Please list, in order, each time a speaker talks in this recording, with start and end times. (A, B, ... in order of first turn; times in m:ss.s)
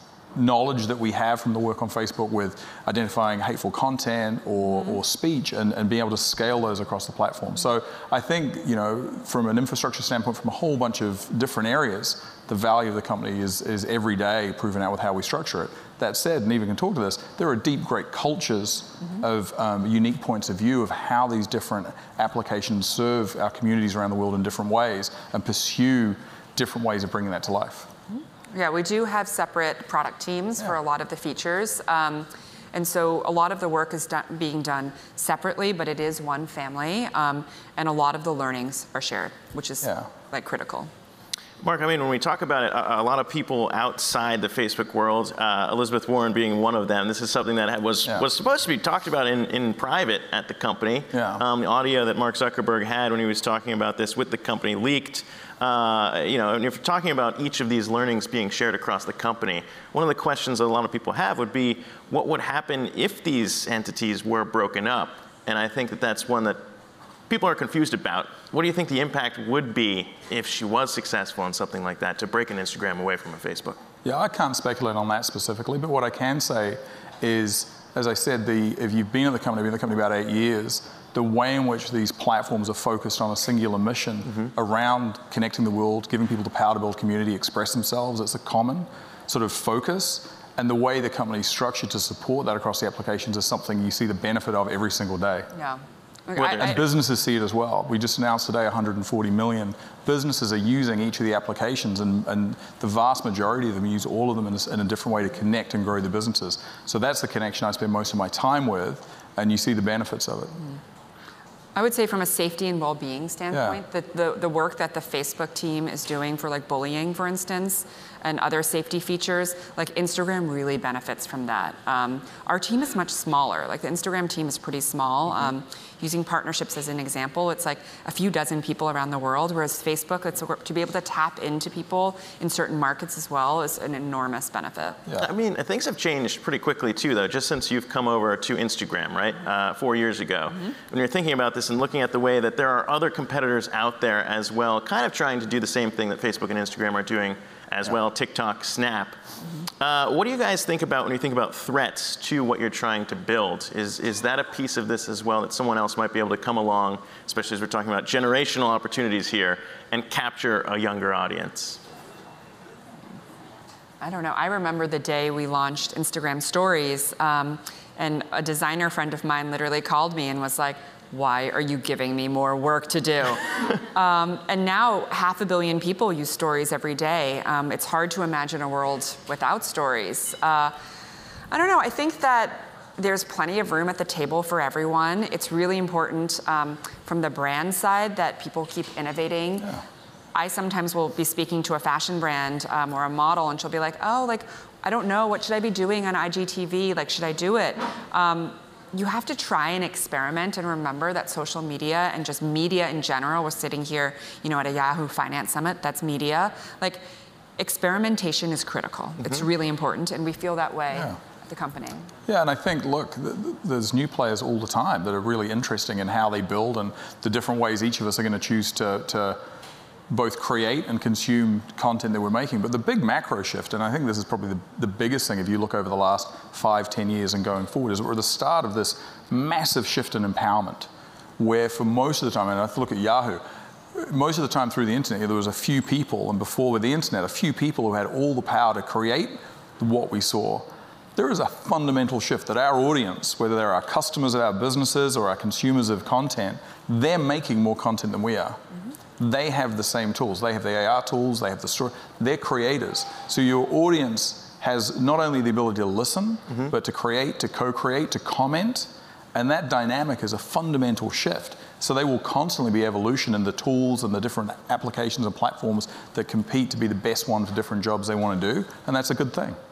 0:00.3-0:27.9 A
0:28.5-0:40.9 B
0:39.8-0:40.1 A
0:41.6-1:06.6 C
0:51.1-0:51.4 A
1:07.3-1:13.8 C
1:14.0-1:35.5 A
1:35.5-1:36.8 B
1:36.4-1:36.7 C
1:36.4-1:50.7 A
1:51.7-2:15.0 B
1:53.5-1:53.8 A
2:15.2-2:29.2 C
2:29.8-2:41.8 C
2:44.0-3:00.7 B
3:01.5-3:09.8 B
3:10.3-3:27.0 B
3:27.6-3:32.1 B
3:30.9-3:31.2 A
3:32.3-3:39.4 A
3:40.1-3:53.4 A
3:53.9-4:08.6 A
4:09.2-4:29.6 A